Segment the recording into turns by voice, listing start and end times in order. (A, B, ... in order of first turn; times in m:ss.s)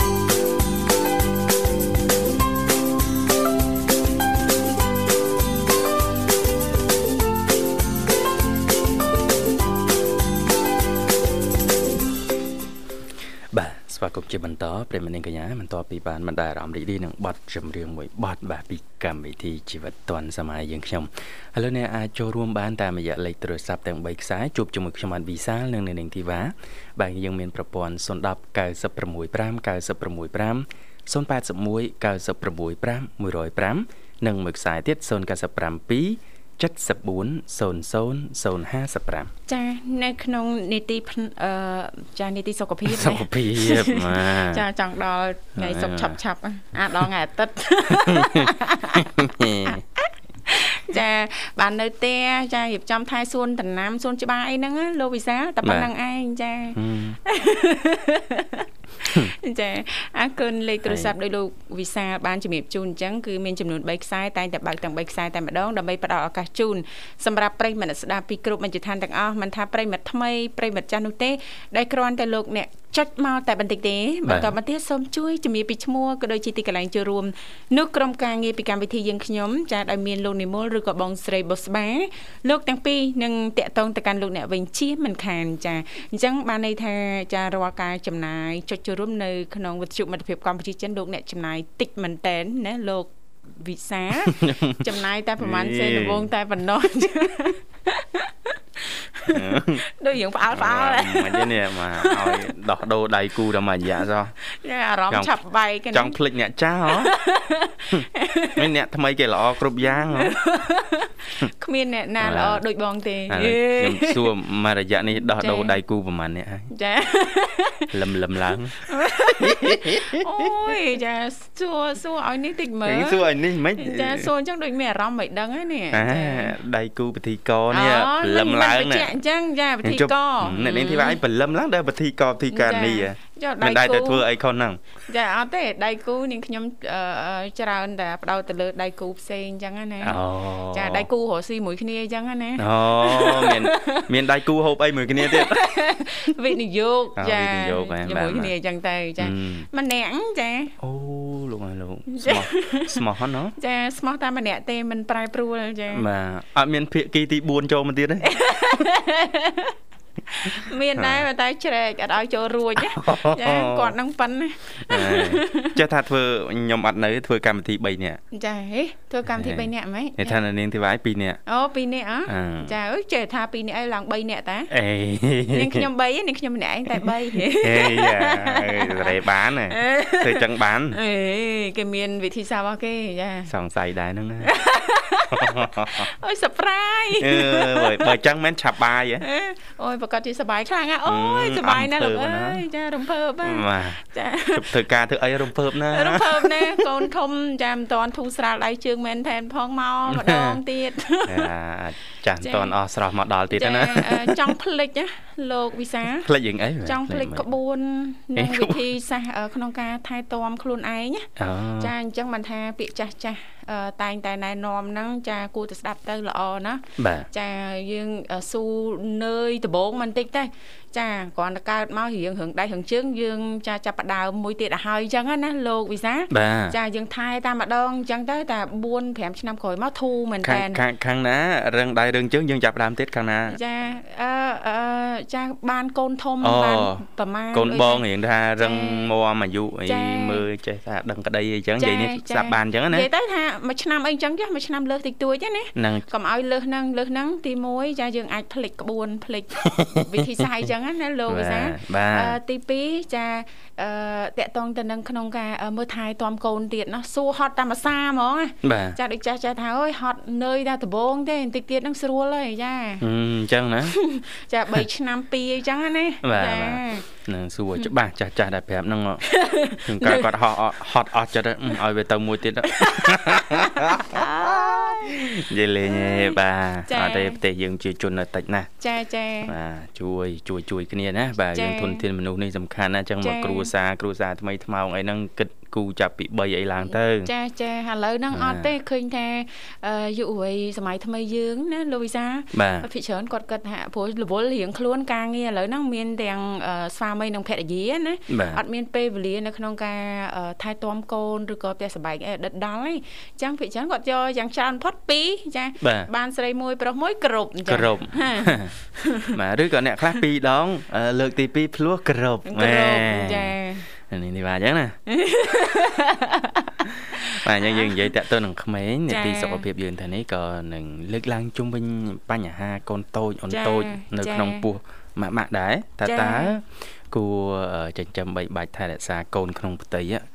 0:13.5-0:39.3 A
0:39.5-0:49.1 B
0:42.9-0:44.6 A
0:45.6-0:46.2 A
0:47.9-0:49.8 A
0:49.6-1:42.5 B
0:55.6-0:55.9 A
0:56.8-0:57.2 A
1:00.9-1:01.1 A
1:14.2-1:14.6 A
1:34.2-1:34.8 A
1:35.4-1:36.3 A
1:39.3-1:39.8 A
1:40.5-1:44.3 A
1:44.5-1:46.2 B
1:45.9-1:47.1 A
1:46.9-1:48.6 B
1:48.6-1:50.4 A
1:50.1-1:54.3 B
1:52.2-1:52.6 A
1:53.3-1:56.7 A
1:55.2-1:55.8 B
1:56.7-1:57.9 B
1:57.9-2:00.8 A
1:58.9-2:06.6 B
2:02.8-2:04.3 A
2:05.9-2:09.1 A
2:07.7-2:11.2 B
2:09.8-2:14.8 A
2:12.5-2:14.2 B
2:15.1-2:20.2 B
2:20.0-2:21.1 A
2:20.7-2:24.1 B
2:22.6-2:25.8 A
2:25.2-2:30.8 B
2:27.2-2:28.5 A
2:29.2-2:29.7 A
2:30.8-2:33.5 A
2:32.1-2:33.0 B
2:33.6-2:36.1 B
2:35.9-2:38.3 A
2:38.2-2:39.8 B
2:40.3-2:45.8 B
2:42.8-2:43.9 A
2:44.8-2:48.2 A
2:48.3-2:50.4 B
2:49.3-2:51.4 A
2:51.5-2:54.7 B
2:52.3-2:52.7 A
2:54.7-2:55.9 A
2:55.5-3:03.5 B
2:56.9-3:01.0 A
3:03.5-3:04.5 A
3:04.4-3:08.1 B
3:05.3-3:06.1 A
3:07.2-3:09.2 A
3:09.2-3:14.7 B
3:11.1-3:12.6 A
3:13.4-3:14.0 A
3:14.5-3:17.0 A
3:15.9-3:21.5 B
3:20.1-3:20.6 A
3:21.3-3:24.5 A
3:22.4-3:22.8 B
3:23.5-3:26.3 B
3:26.2-3:27.5 A
3:26.8-3:50.8 B
3:28.4-3:28.8 A
3:31.4-3:31.9 A
3:37.0-3:37.3 A
3:46.3-3:46.8 A
3:50.4-3:53.6 A
3:53.5-3:58.0 B
3:56.4-4:03.1 A
3:58.6-3:59.1 B
3:59.9-4:00.4 B
4:01.8-4:23.0 B
4:05.8-4:06.0 A
4:09.6-4:10.1 A
4:11.3-4:12.4 A
4:18.6-4:19.0 A
4:23.0-4:24.0 A
4:23.9-4:27.0 B
4:26.2-4:38.7 A
4:29.2-4:30.3 B
4:32.7-4:37.4 B
4:38.8-4:39.5 B
4:39.4-4:47.3 A
4:41.5-4:42.0 B
4:43.2-4:43.7 B
4:47.2-5:09.4 B
4:48.3-4:48.7 A
4:52.5-4:52.9 A
4:58.3-4:58.6 A
5:05.8-5:06.1 A
5:07.7-5:08.7 A
5:09.3-5:15.0 A
5:12.4-5:13.9 B
5:15.1-5:18.1 B
5:17.3-5:30.3 A
5:19.1-5:19.6 B
5:23.5-5:24.7 B
5:26.0-5:26.6 B